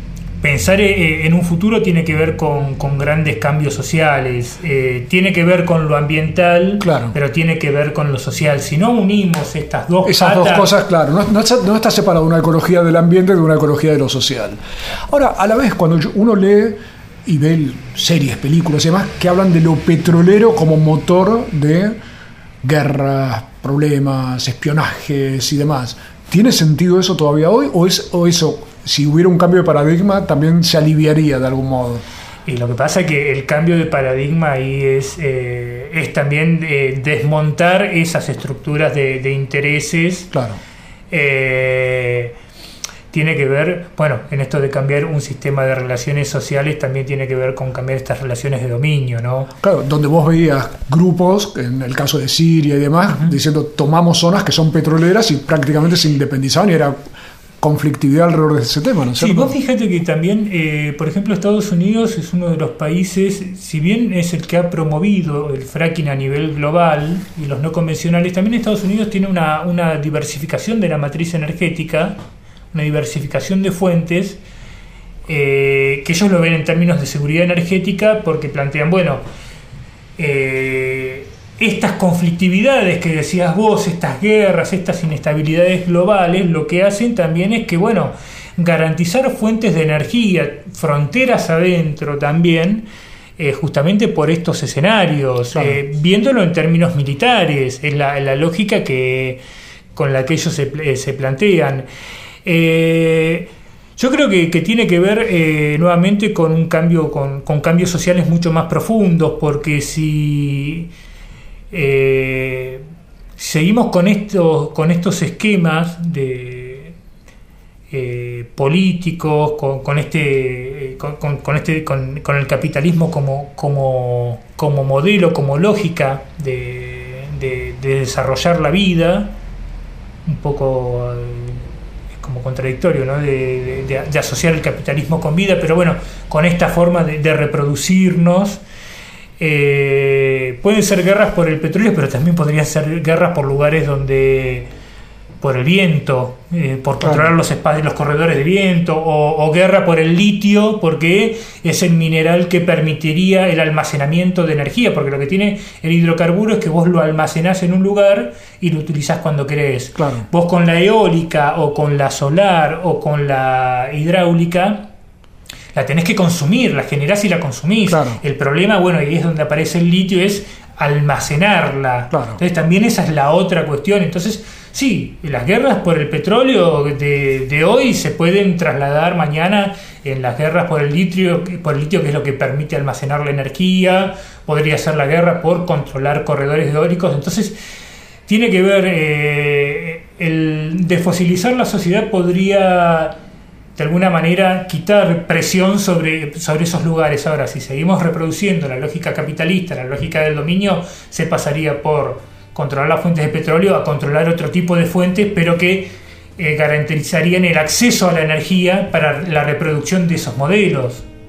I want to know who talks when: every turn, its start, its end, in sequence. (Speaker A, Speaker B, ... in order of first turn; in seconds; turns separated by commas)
Speaker A: 0.4-10.7, Speaker B: 6.8-7.2, Speaker B: 10.0-22.0, Speaker B: 22.6-32.0, Speaker A: 32.5-40.3, Speaker B: 40.3-40.6, Speaker A: 41.1-42.3, Speaker A: 43.1-49.5, Speaker B: 49.6-57.0, Speaker B: 57.6-59.5, Speaker A: 59.2-72.2, Speaker A: 72.7-74.4, Speaker A: 75.3-79.2, Speaker A: 80.2-99.4, Speaker B: 95.5-95.8, Speaker A: 99.9-101.9, Speaker A: 102.4-110.9, Speaker A: 111.7-112.8, Speaker A: 113.4-116.9, Speaker A: 117.9-129.3, Speaker A: 130.2-138.6, Speaker A: 139.4-144.7, Speaker A: 145.4-164.9, Speaker B: 147.0-147.3, Speaker B: 160.0-160.3, Speaker A: 165.7-187.6, Speaker B: 167.9-168.2, Speaker B: 172.1-172.4, Speaker A: 188.3-193.2, Speaker A: 193.8-211.1